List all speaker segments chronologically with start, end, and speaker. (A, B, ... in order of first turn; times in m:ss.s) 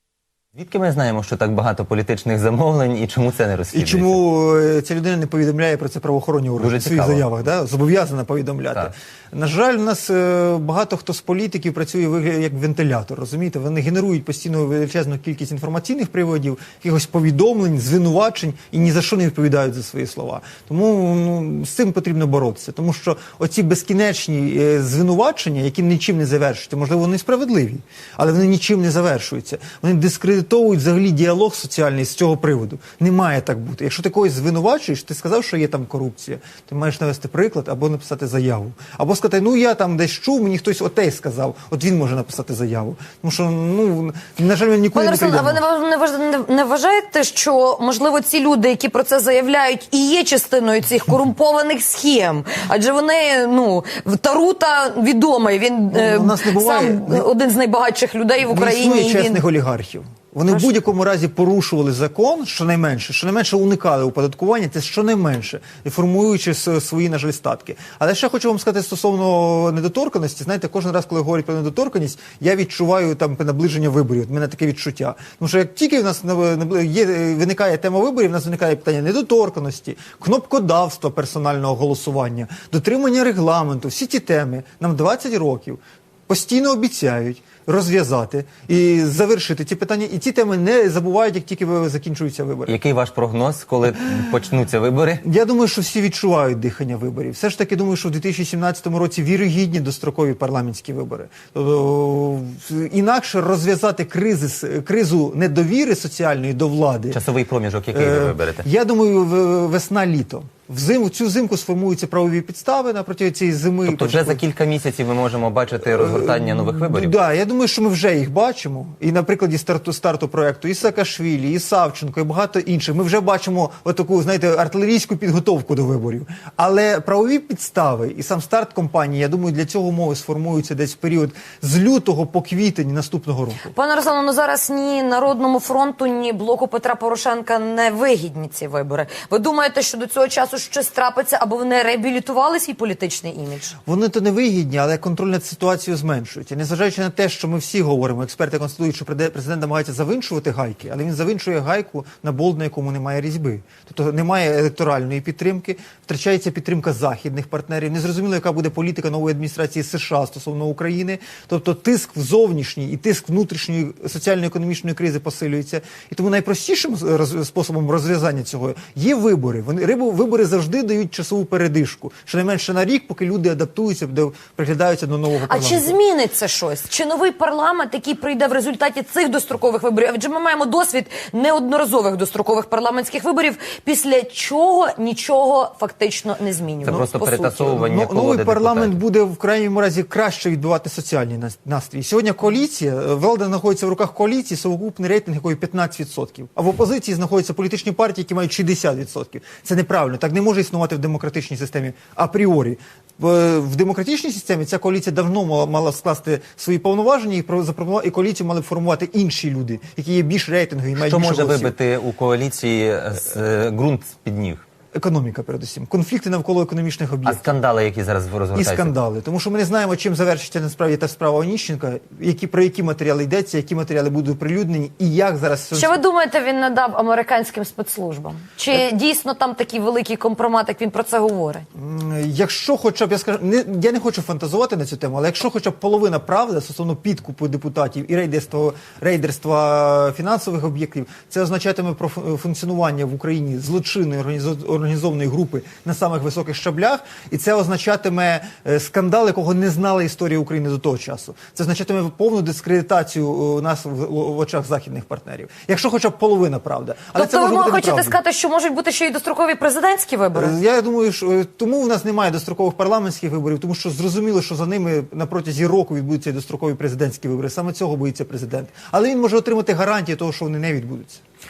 0:00.6-0:04.2 A
0:03.7-0:45.6 B
0:06.6-0:07.2 A
0:44.9-0:59.4 C
0:55.9-0:57.3 B
0:58.5-1:32.8 B
1:32.7-1:35.2 A
1:35.2-1:47.2 B
1:47.1-1:48.6 A
1:47.9-1:54.4 B
1:53.9-1:57.1 A
1:56.0-2:13.7 B
2:13.7-2:23.8 C
2:23.9-2:56.0 B
2:55.5-3:07.7 C
3:06.8-3:09.0 A
3:07.6-3:31.7 B
3:31.0-3:34.6 A
3:34.9-3:37.5 B
3:37.2-3:38.9 A
3:38.5-3:46.0 B
3:45.7-3:51.6 C
3:51.8-4:18.2 B
4:17.2-4:20.5 C
4:20.3-4:31.2 B